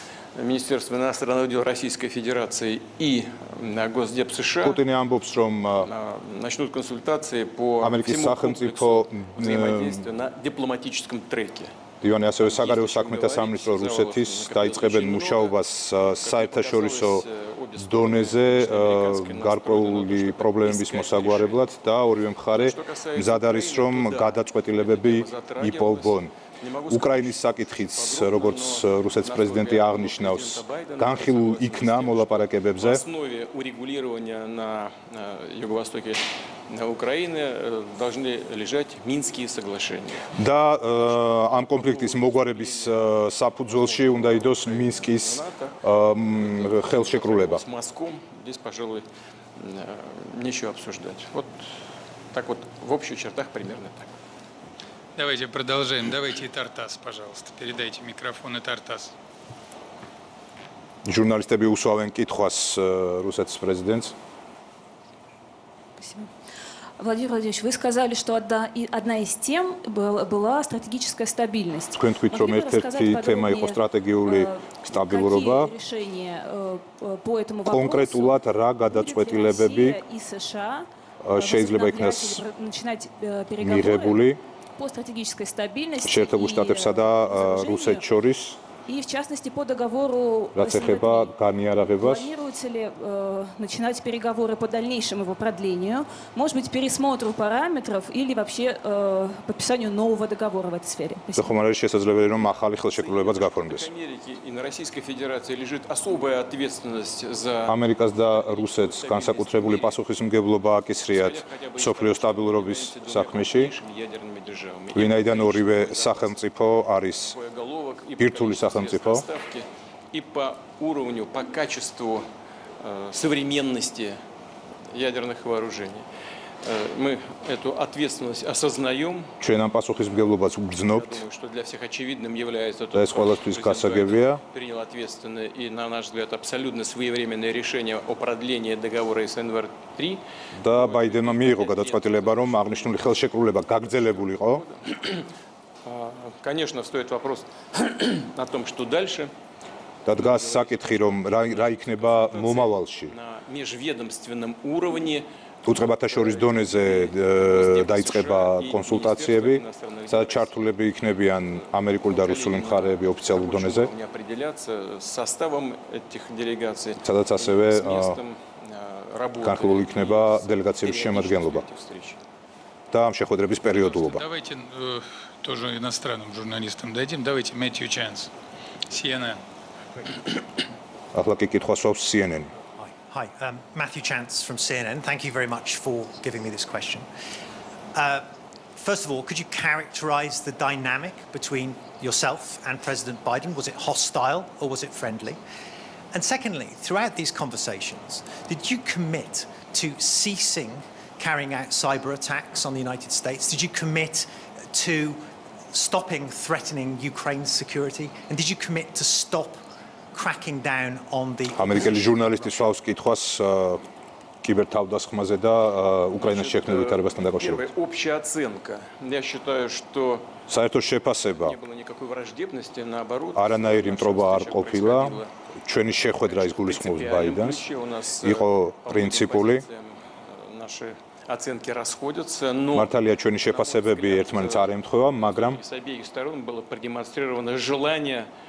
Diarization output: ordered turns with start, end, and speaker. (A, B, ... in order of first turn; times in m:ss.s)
0:00.4-0:04.8 A
0:04.6-0:05.9 B
0:05.8-0:11.7 A
0:07.8-0:10.1 B
0:12.0-0:17.3 B
0:12.4-0:15.6 A
0:16.2-0:21.8 A
0:17.8-0:26.3 B
0:22.5-0:40.3 A
0:26.9-0:33.0 B
0:40.3-0:47.6 B
0:40.9-0:49.1 A
0:49.6-0:51.6 A
0:52.3-0:54.1 A
0:55.2-0:59.1 C
1:01.1-1:04.2 B
1:06.0-1:06.3 D
1:07.0-1:28.1 D
1:11.9-1:15.7 B
1:17.7-1:20.0 B
1:21.2-1:22.4 B
1:23.6-1:24.4 B
1:26.0-1:28.6 B
1:28.9-1:31.3 D
1:30.6-1:32.3 B
1:32.0-1:41.5 D
1:41.4-1:43.9 B
1:42.9-1:50.0 A
1:47.7-1:53.8 B
1:51.1-1:56.4 A
1:54.9-1:57.4 B
1:57.1-2:02.2 A
1:58.2-1:59.3 B
2:02.8-2:04.2 A
2:04.9-2:06.1 A
2:06.6-2:09.3 A
2:09.4-2:11.2 B
2:10.8-2:23.2 A
2:12.9-2:14.4 B
2:20.6-2:24.6 B
2:23.8-2:25.3 A
2:25.8-2:29.3 A
2:30.0-2:33.2 B
2:30.2-2:40.6 A
2:35.6-2:43.9 B
2:41.3-2:52.2 A
2:47.0-2:48.2 B
2:49.4-2:51.6 B
2:52.9-2:54.2 B
2:53.7-2:58.3 C
2:58.9-2:59.4 C
3:01.1-3:02.5 B
3:02.8-3:07.1 E
3:07.9-3:15.4 E
3:16.1-3:29.6 E
3:30.1-3:32.7 E
3:31.5-3:33.8 B
3:34.4-3:37.7 B
3:36.2-3:40.3 A
3:40.5-3:41.6 B
3:41.4-3:45.3 A
3:43.4-3:47.6 B
3:46.0-3:58.3 A
3:48.2-3:49.6 B
3:52.7-3:55.6 B